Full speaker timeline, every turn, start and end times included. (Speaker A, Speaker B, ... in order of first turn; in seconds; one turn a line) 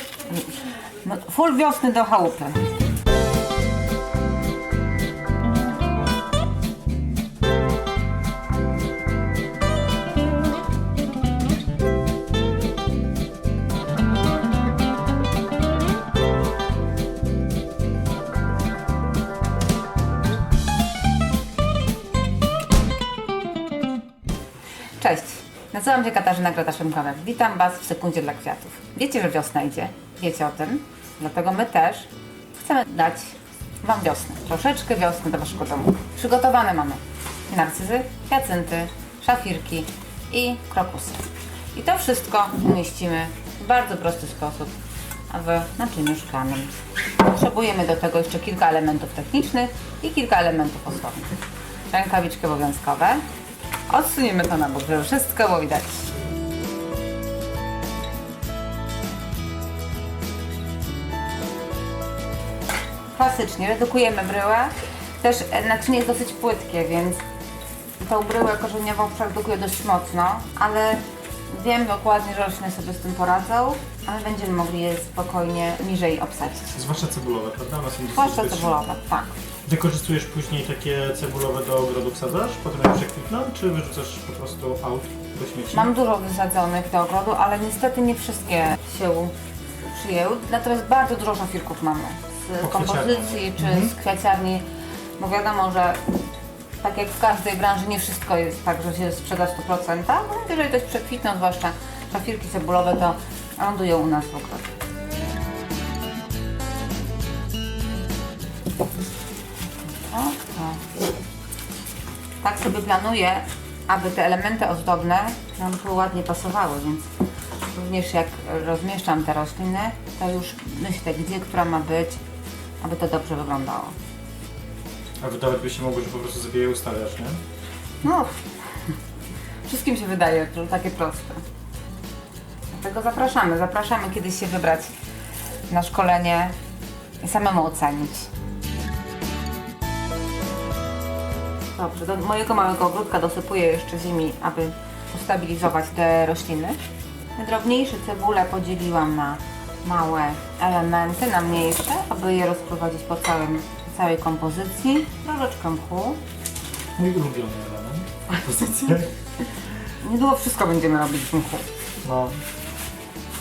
Speaker A: 0.2-2.7
Speaker A: 25.0-44.7
Speaker A: 45.3-51.4
Speaker A: 51.9-53.2
Speaker A: 53.9-56.1
Speaker A: 63.1-67.2
Speaker A: 68.0-76.7
Speaker B: 76.7-78.8
Speaker A: 78.1-79.3
Speaker B: 79.6-85.9
Speaker A: 85.7-89.3
Speaker A: 89.8-94.6
Speaker B: 92.6-93.9
Speaker A: 95.2-96.1
Speaker A: 96.8-104.7
Speaker A: 110.1-110.8
Speaker A: 112.4-117.1
Speaker A: 117.7-122.2
Speaker A: 122.8-123.9
Speaker B: 125.2-127.4
Speaker A: 128.0-128.9
Speaker A: 129.6-131.4
Speaker A: 132.7-134.9
Speaker A: 135.7-136.5
Speaker A: 137.2-138.3
Speaker A: 141.7-146.8
Speaker A: 147.3-156.2
Speaker B: 157.0-159.1
Speaker A: 160.0-161.7
Speaker B: 162.0-162.4